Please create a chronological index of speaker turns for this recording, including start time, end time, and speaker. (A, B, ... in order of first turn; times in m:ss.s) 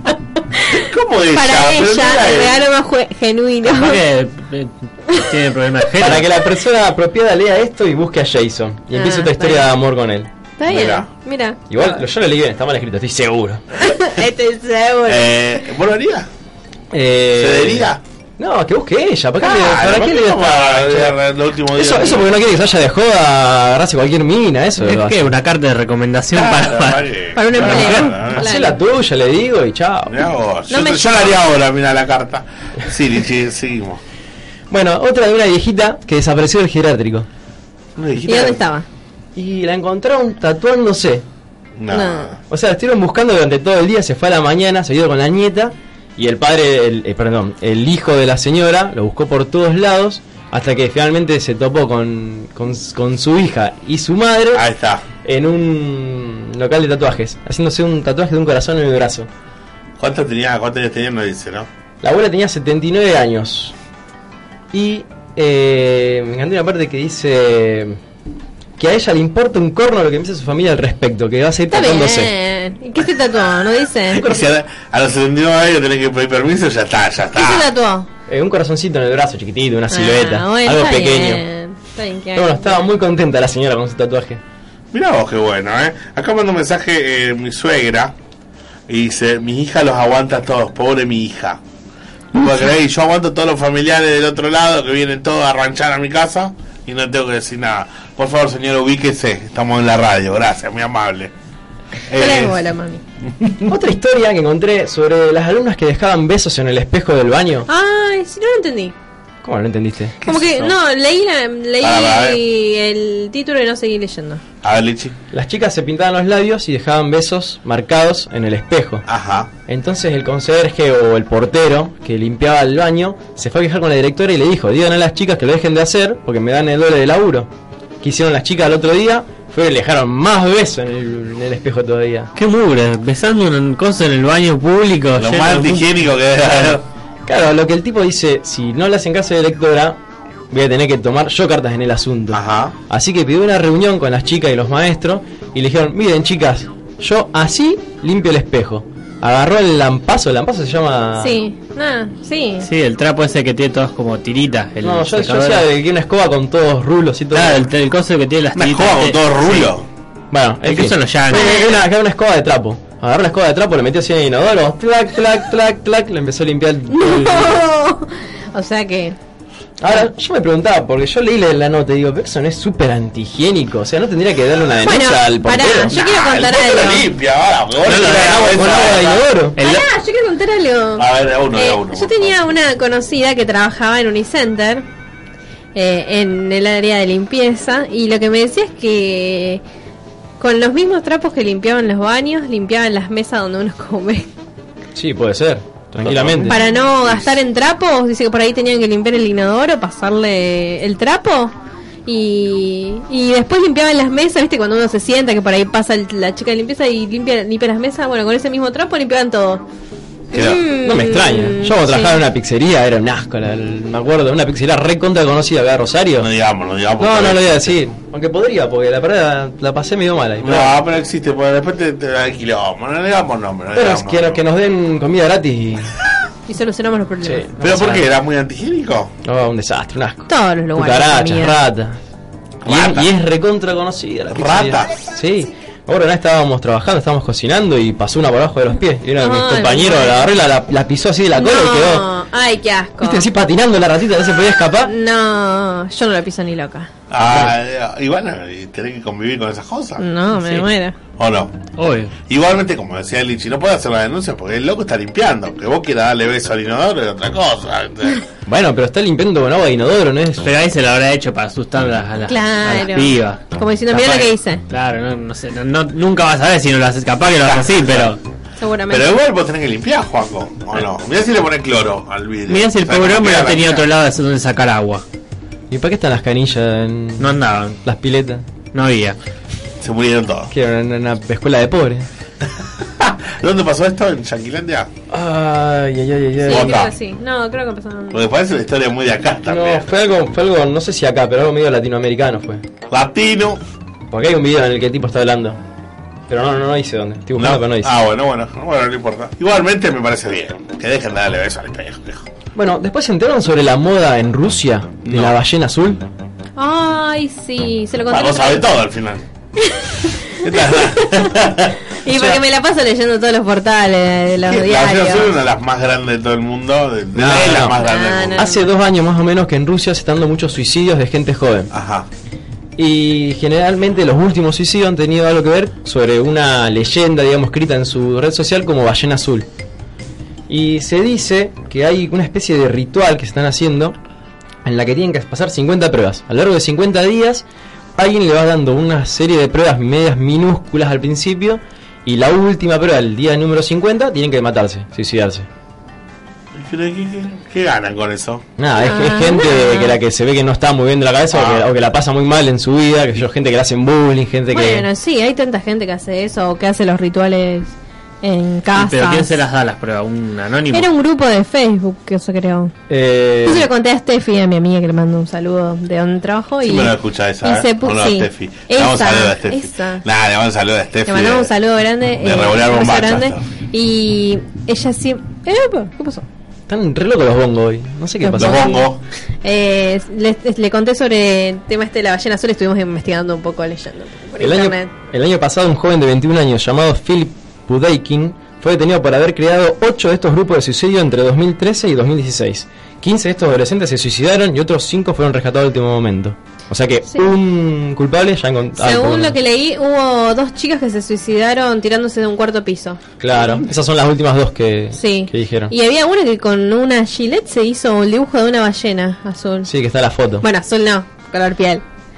0:00.6-0:04.0 A
0:00.8-0:02.6 B
0:03.7-0:06.3 C
0:06.0-0:10.3 D
0:08.9-0:09.7 A
0:10.6-0:11.6 A
0:10.7-0:11.1 B
0:11.7-0:13.6 D
0:13.8-0:15.4 A
0:15.1-0:16.3 B
0:16.9-0:21.2 D
0:17.3-0:18.0 B
0:19.4-0:22.4 B
0:21.7-0:25.3 D
0:24.8-0:27.1 C
0:26.3-0:28.6 B
0:27.4-0:28.7 A
0:27.6-0:30.2 D
0:30.1-0:34.0 B
0:30.7-0:31.4 A
0:34.7-0:37.3 D
0:38.0-0:38.6 B
0:38.3-0:38.9 A
0:39.4-0:41.2 D
0:41.8-0:42.4 B
0:41.9-0:42.3 A
0:42.5-0:54.7 D
0:54.5-0:55.1 B
0:55.2-0:59.3 D
1:00.0-1:01.7 B
1:02.0-1:03.7 D
1:04.7-1:08.0 D
1:08.8-1:12.3 D
1:11.7-1:14.3 A
1:14.1-1:17.7 B
1:17.3-1:18.1 A
1:18.3-1:21.4 D
1:19.9-1:22.8 A
1:22.4-1:24.4 D
1:24.9-1:28.2 B
1:28.9-1:31.6 B
1:32.3-1:41.3 B
1:42.1-1:42.6 B
1:42.1-1:43.0 A
1:43.3-1:43.7 B
1:43.7-1:47.7 D
1:47.7-1:48.9 A
1:49.4-1:50.2 D
1:50.2-1:50.7 B
1:50.2-1:54.4 A
1:51.8-1:52.4 B
1:54.6-1:55.2 B
1:55.3-1:59.1 D
1:59.1-1:59.5 B
1:59.7-2:07.5 D
2:08.0-2:12.3 D
2:12.4-2:16.8 C
2:15.2-2:16.8 B
2:17.3-2:20.0 D
2:20.5-2:31.4 D
2:22.3-2:22.8 B
2:31.2-2:32.7 A
2:32.6-2:35.7 C
2:34.8-2:37.7 D
2:37.3-2:39.7 C
2:38.6-2:39.9 B
2:40.3-2:47.6 D
2:40.6-2:41.8 C
2:41.3-2:41.7 A
2:46.9-2:49.2 A
2:49.8-2:56.0 D
2:54.8-2:57.1 A
2:55.9-2:59.3 B
2:57.8-2:59.8 C
2:58.2-2:59.6 D
2:59.6-3:04.8 A
3:01.0-3:02.3 B
3:05.7-3:09.6 A
3:10.4-3:14.3 A
3:15.0-3:16.6 D
3:16.0-3:17.4 B
3:16.4-3:21.5 A
3:22.1-3:29.6 A
3:30.3-3:30.6 B
3:30.3-3:32.2 A
3:30.8-3:36.3 D
3:36.2-3:37.8 B
3:37.0-3:40.8 D
3:40.4-3:44.4 B
3:43.8-3:46.0 D
3:46.5-3:47.4 A
3:47.2-3:48.0 D
3:47.6-3:49.1 B
3:49.2-3:52.0 D
3:50.3-3:51.6 A
3:52.6-3:53.1 B
3:52.7-4:02.1 D
3:54.3-3:55.0 B
3:59.2-4:00.2 A
4:01.4-4:03.3 A
4:03.0-4:04.9 D
4:04.8-4:06.9 A
4:07.1-4:10.0 B
4:07.3-4:07.5 D
4:10.0-4:11.0 A
4:10.4-4:10.7 C
4:11.2-4:11.6 B
4:11.8-4:12.1 C
4:12.3-4:18.2 B
4:18.5-4:20.5 D
4:20.4-4:28.2 C
4:22.3-4:24.6 A
4:27.4-4:28.2 B
4:28.6-4:29.2 A
4:28.9-4:33.9 B
4:32.5-4:35.0 C
4:35.7-4:38.4 D
4:37.2-4:37.8 C
4:38.7-4:39.2 C
4:39.8-4:40.5 B
4:40.5-4:42.1 D
4:42.8-4:44.9 B
4:45.1-4:46.8 D
4:46.4-4:48.2 A
4:46.5-4:46.9 B
4:48.1-4:49.9 B
4:49.5-4:52.6 D
4:52.9-4:53.6 B
4:54.1-4:55.6 D
4:56.3-4:57.9 D
4:57.4-5:02.3 B
5:02.6-5:06.0 D
5:05.0-5:05.4 B
5:06.6-5:08.6 A
5:08.1-5:09.2 B
5:09.6-5:11.4 A
5:10.4-5:11.8 B
5:12.0-5:15.3 A
5:12.1-5:12.4 D
5:14.5-5:18.5 B
5:17.2-5:17.8 D
5:17.6-5:18.7 A
5:18.4-5:21.7 D
5:21.7-5:22.1 B
5:22.8-5:29.5 D
5:30.5-5:34.0 D
5:34.6-5:37.4 D
5:38.0-5:45.5 D
5:46.5-5:48.5 B
5:48.6-5:54.9 D
5:48.8-5:50.0 A
5:51.3-5:51.7 B
5:54.5-5:59.4 A
5:58.7-6:00.9 C
6:00.7-6:02.7 A
6:02.9-6:03.7 D
6:03.4-6:10.0 A
6:06.6-6:11.5 B
6:11.1-6:16.3 A
6:12.2-6:13.5 B
6:16.7-6:18.7 D
6:18.2-6:18.9 A
6:18.4-6:19.0 B
6:19.4-6:24.9 A
6:24.4-6:39.4 D
6:38.8-6:43.0 A
6:43.2-6:45.7 D
6:43.3-6:43.7 B
6:44.9-6:49.7 A
6:49.6-6:50.4 D
6:50.4-6:51.8 A